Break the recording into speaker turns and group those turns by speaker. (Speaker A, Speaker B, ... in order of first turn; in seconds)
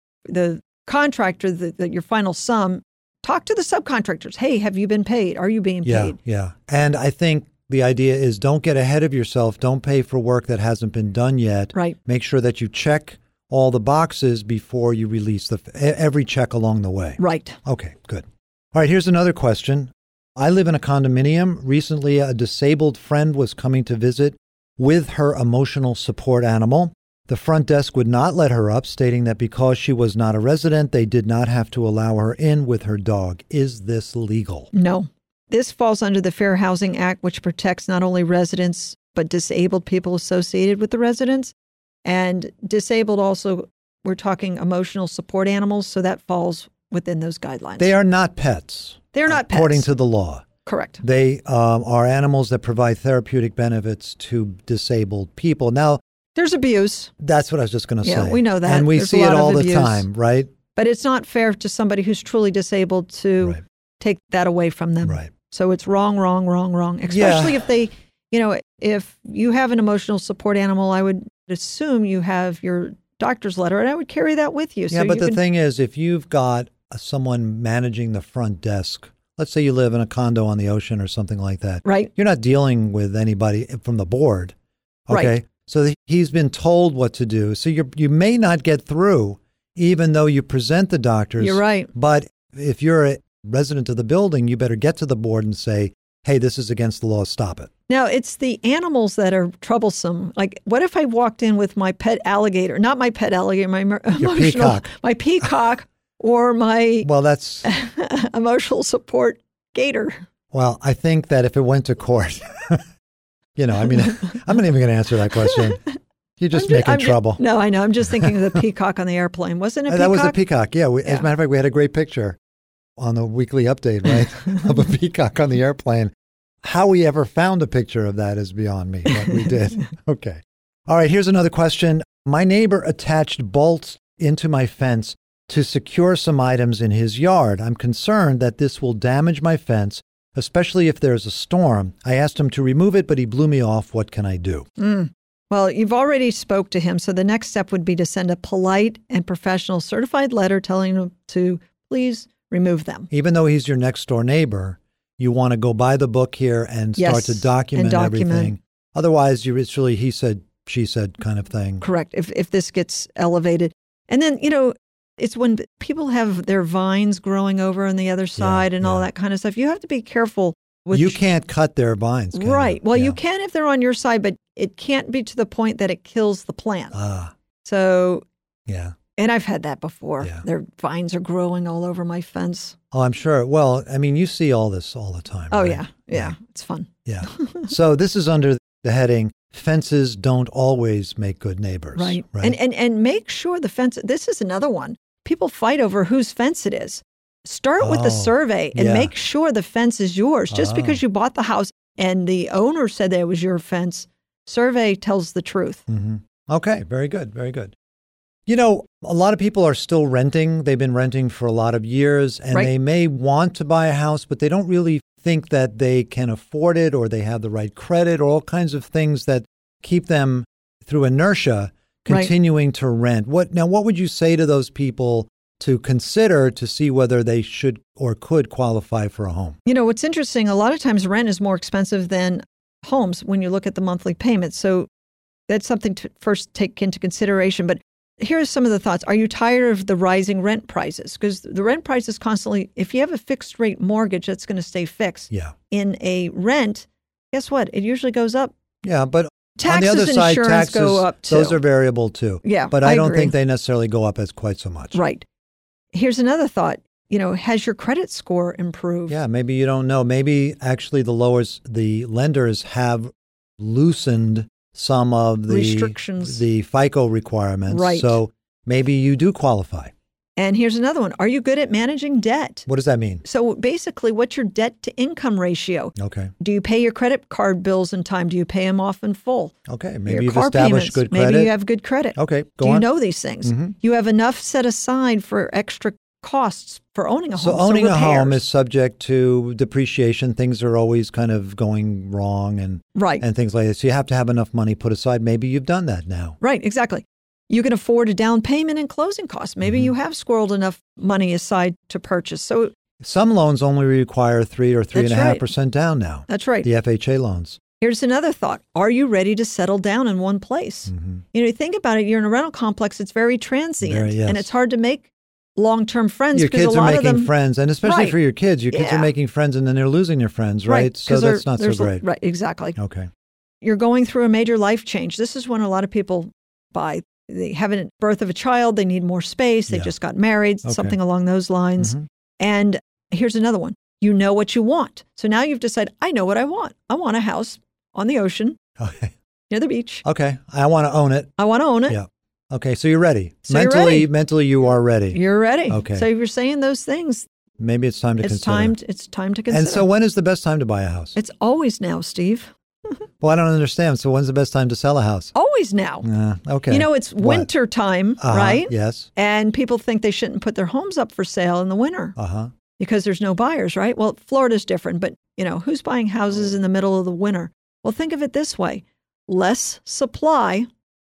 Speaker A: 0.3-6.2, 17.2-17.6, 34.7-47.9, 49.1-49.9, 50.7-51.0, 56.4-57.1, 58.0-60.0, 60.8-75.4, 81.8-82.1, 91.4-91.9, 97.9-107.1, 107.6-110.2, 116.5-120.4, 144.8-153.1, 157.0-158.6, 161.8-171.2, 172.3-176.9, 177.6-178.2, 179.2-182.8, 185.5-187.7, 191.9-205.8, 229.7-234.9, 235.5-248.5, 249.6-251.6, 252.4-253.3, 254.9-255.2, 255.9-259.2, 265.5-266.4, 267.7-268.2, 270.4-272.6, 273.2-279.5, 280.1-288.4, 292.9-293.2, 296.4-302.7, 304.9-305.4, 306.3-306.7, 307.8-317.3, 317.8-318.2, 318.7-319.1, 320.7-322.8, 323.6-338.6, 339.5-340.0, 341.4-342.0, 343.5-344.1, 345.1-347.3, 348.2-349.9, 351.1-353.0, 355.4-356.0, 356.7-362.1, 362.8-370.7
Speaker B: 5.8-34.7, 47.8-50.4, 51.0-56.0, 57.2-60.5, 65.0-65.3, 67.1-67.6, 74.9-84.5, 85.1-97.7, 104.2-104.9, 107.0-107.7, 110.5-112.8, 113.5-115.8, 116.4-117.4, 119.9-122.4, 123.0-126.1, 126.6-144.7, 153.1-161.8, 168.4-169.1, 170.9-173.2, 176.9-177.3, 178.7-179.0, 182.9-186.3, 187.0-192.5, 197.8-199.1, 200.5-201.0, 205.9-207.7, 208.5-229.6, 248.8-255.0, 259.1-269.9, 272.7-273.2, 276.0-276.3, 279.7-281.5, 282.1-282.9, 283.4-283.8, 287.4-296.4, 299.6-299.9, 303.0-307.6, 310.9-311.2, 313.8-314.5, 316.3-322.0, 322.8-323.1, 330.6-331.0, 331.8-332.1, 338.8-339.1, 340.0-341.3, 341.9-346.1, 347.6-348.8, 349.5-351.1, 353.2-355.3, 356.0-357.5, 358.2-359.1, 362.2-362.5